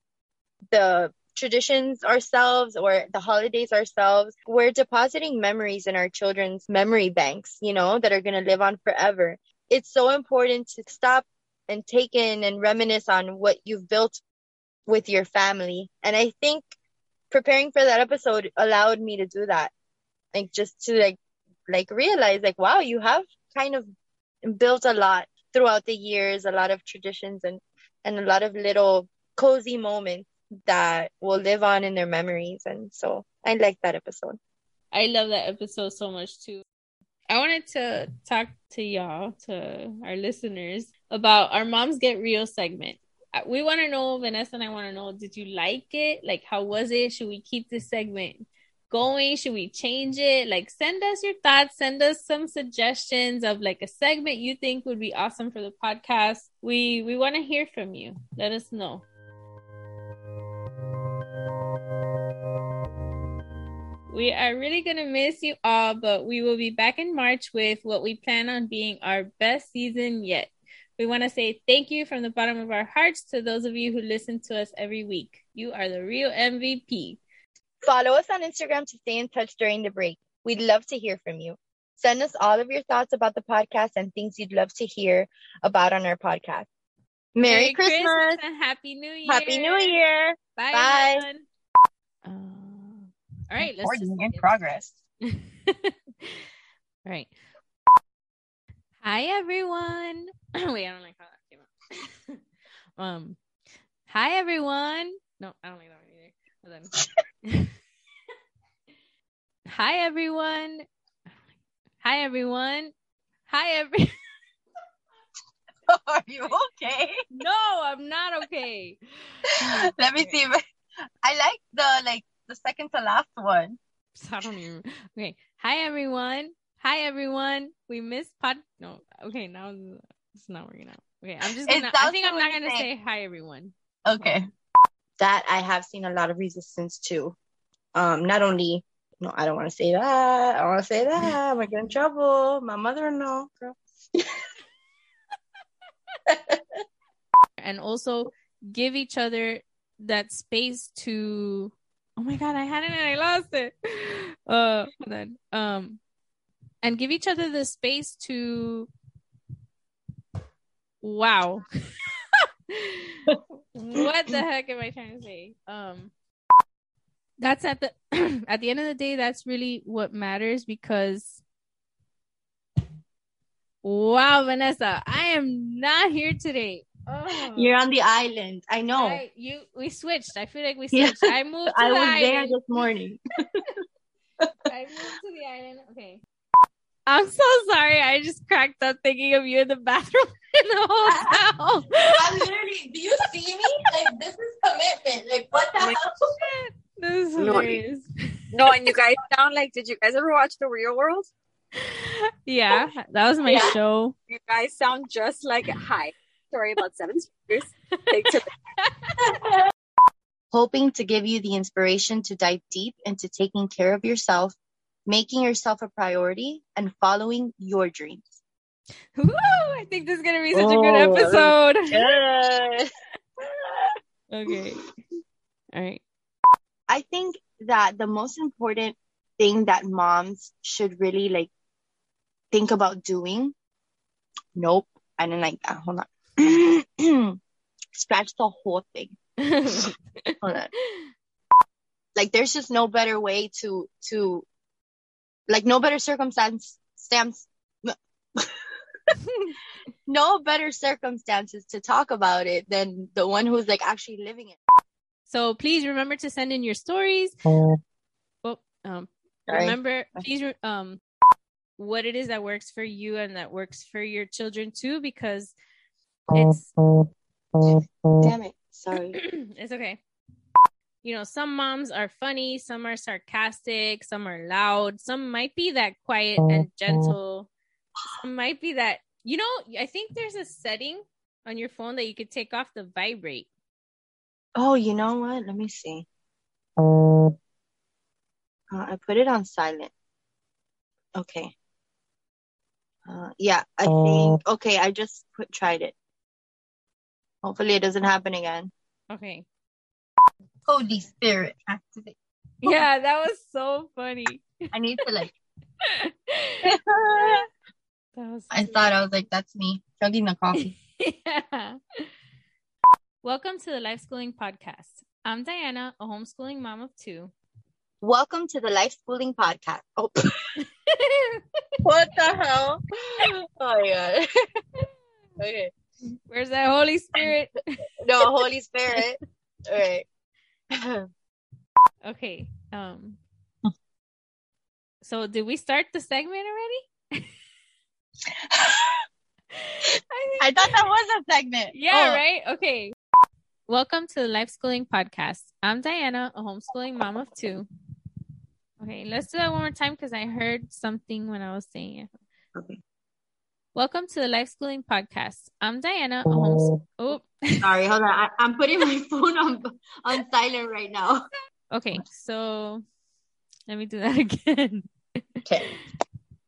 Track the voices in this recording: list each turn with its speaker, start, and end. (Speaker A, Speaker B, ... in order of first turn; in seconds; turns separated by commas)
Speaker A: 0.7-14.2, Speaker A: 14.9-16.7, Speaker A: 17.3-19.7, Speaker A: 20.3-21.2, Speaker A: 21.7-23.9, Speaker A: 24.4-34.4, Speaker B: 34.9-36.6, Speaker B: 37.3-59.0, Speaker B: 64.1-77.2, Speaker A: 77.8-86.7, Speaker A: 87.3-88.4, Speaker B: 87.4-90.0, Speaker A: 89.2-91.2, Speaker B: 90.6-91.5, Speaker B: 92.2-94.6, Speaker A: 93.6-94.9, Speaker B: 95.2-96.3, Speaker B: 97.0-97.3, Speaker B: 99.0-101.7, Speaker B: 103.0-103.4, Speaker B: 104.1-107.7, Speaker B: 109.7-110.8, Speaker B: 112.0-112.9, Speaker B: 113.5-114.1, Speaker A: 115.9-117.2, Speaker B: 117.3-120.3, Speaker A: 119.9-120.6, Speaker A: 121.2-123.8, Speaker B: 124.1-134.3, Speaker A: 131.6-132.9, Speaker A: 134.0-134.4, Speaker A: 135.2-137.4, Speaker A: 137.9-143.8, Speaker A: 146.3-146.6, Speaker B: 147.6-156.0, Speaker B: 156.8-158.9, Speaker B: 161.0-161.7, Speaker B: 162.7-163.1, Speaker B: 163.7-166.1, Speaker B: 167.4-171.4, Speaker B: 173.8-177.7, Speaker A: 177.6-179.2, Speaker B: 178.9-182.6, Speaker A: 180.9-183.2, Speaker B: 184.7-186.2, Speaker B: 187.1-192.2, Speaker A: 191.1-191.3, Speaker A: 192.1-196.1, Speaker B: 196.4-198.1, Speaker C: 197.4-197.8, Speaker C: 198.5-201.3, Speaker B: 201.9-204.1, Speaker C: 204.3-208.4, Speaker A: 210.5-218.3, Speaker B: 219.1-222.0, Speaker A: 220.5-222.9, Speaker B: 224.3-224.8, Speaker B: 225.7-226.0, Speaker A: 226.9-231.5, Speaker A: 232.5-233.5, Speaker A: 234.6-237.3, Speaker A: 237.9-239.1, Speaker B: 239.5-241.0, Speaker A: 240.4-240.7, Speaker A: 242.2-244.5, Speaker A: 245.5-248.5, Speaker B: 249.3-249.6, Speaker A: 250.1-254.6, Speaker B: 255.3-257.4, Speaker B: 258.4-261.0, Speaker A: 259.5-260.2, Speaker B: 261.8-265.5, Speaker B: 266.3-266.7, Speaker A: 268.2-269.2, Speaker B: 269.1-270.0, Speaker B: 271.0-277.5, Speaker B: 278.1-283.5, Speaker A: 284.6-286.1, Speaker A: 288.7-289.9, Speaker A: 291.1-291.5, Speaker A: 293.1-295.9, Speaker A: 297.4-298.7, Speaker B: 299.1-299.4, Speaker A: 300.6-302.8, Speaker B: 302.6-304.5, Speaker A: 304.7-305.3, Speaker B: 305.8-306.6, Speaker A: 306.7-307.4, Speaker B: 307.1-307.4, Speaker B: 308.1-308.9, Speaker A: 308.5-310.7, Speaker B: 310.9-312.1, Speaker B: 313.2-317.3, Speaker A: 318.0-320.2, Speaker B: 320.6-321.4, Speaker A: 321.8-324.3, Speaker A: 325.4-325.7, Speaker B: 326.3-327.6, Speaker A: 328.0-330.1, Speaker A: 330.7-331.0, Speaker B: 332.0-333.2, Speaker B: 335.0-337.2, Speaker A: 338.5-338.9, Speaker B: 339.5-340.6, Speaker A: 340.4-342.2, Speaker B: 341.7-342.9, Speaker B: 343.7-347.7, Speaker B: 348.8-352.1, Speaker B: 353.7-357.6, Speaker A: 357.6-361.2, Speaker B: 361.7-362.8, Speaker B: 363.7-364.9